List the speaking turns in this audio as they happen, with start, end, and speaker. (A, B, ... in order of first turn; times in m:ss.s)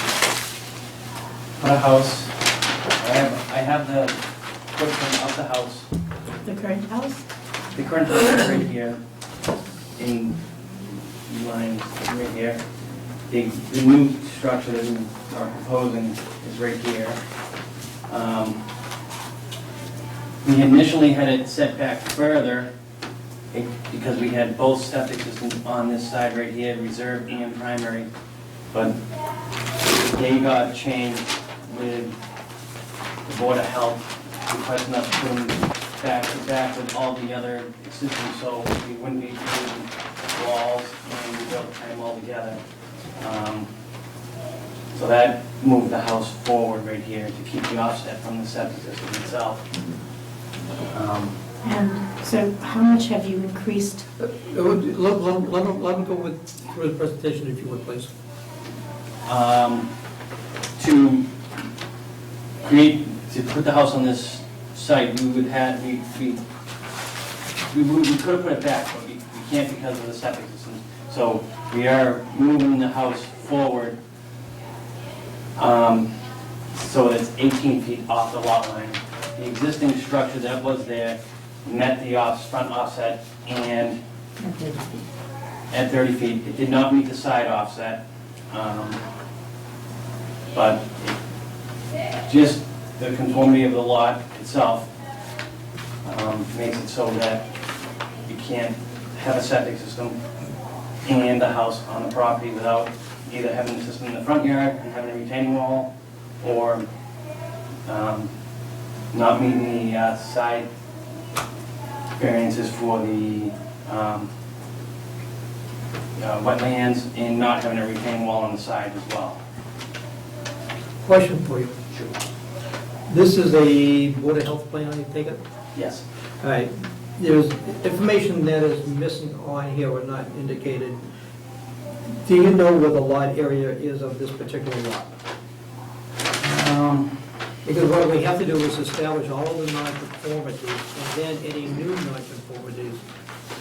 0:01.6-0:02.3 A
0:03.0-0:04.2 A
0:04.7-0:05.9 A
0:06.4-0:07.2 B
0:07.7-0:09.0 A
0:10.0-0:10.3 A
0:11.3-0:12.6 A
0:13.3-0:17.2 A
0:18.1-0:18.6 A
0:20.4-0:22.7 A
0:23.5-0:28.1 A
0:28.7-0:29.0 A
0:29.8-0:32.1 A
0:33.2-0:42.6 A
0:43.2-0:43.7 A
0:44.9-0:49.6 A
0:50.9-0:51.3 A
0:51.6-0:54.0 B
0:54.2-0:58.1 C
0:59.2-0:59.9 A
1:00.8-1:01.3 A
1:02.6-1:06.4 A
1:07.7-1:14.0 A
1:15.6-1:16.1 A
1:16.7-1:24.0 A
1:25.7-1:29.0 A
1:30.5-1:31.2 A
1:32.2-1:34.9 A
1:36.0-1:37.4 A
1:38.2-1:40.2 A
1:41.0-1:45.9 A
1:46.4-1:46.9 A
1:47.8-1:48.3 A
1:49.1-1:50.7 A
1:52.2-1:54.3 A
1:56.2-1:59.4 A
2:01.0-2:01.7 C
2:01.9-2:02.2 A
2:03.1-2:05.4 C
2:05.7-2:06.0 A
2:06.4-2:11.0 C
2:12.2-2:15.1 C
2:16.4-2:17.1 A
2:17.6-2:23.0 C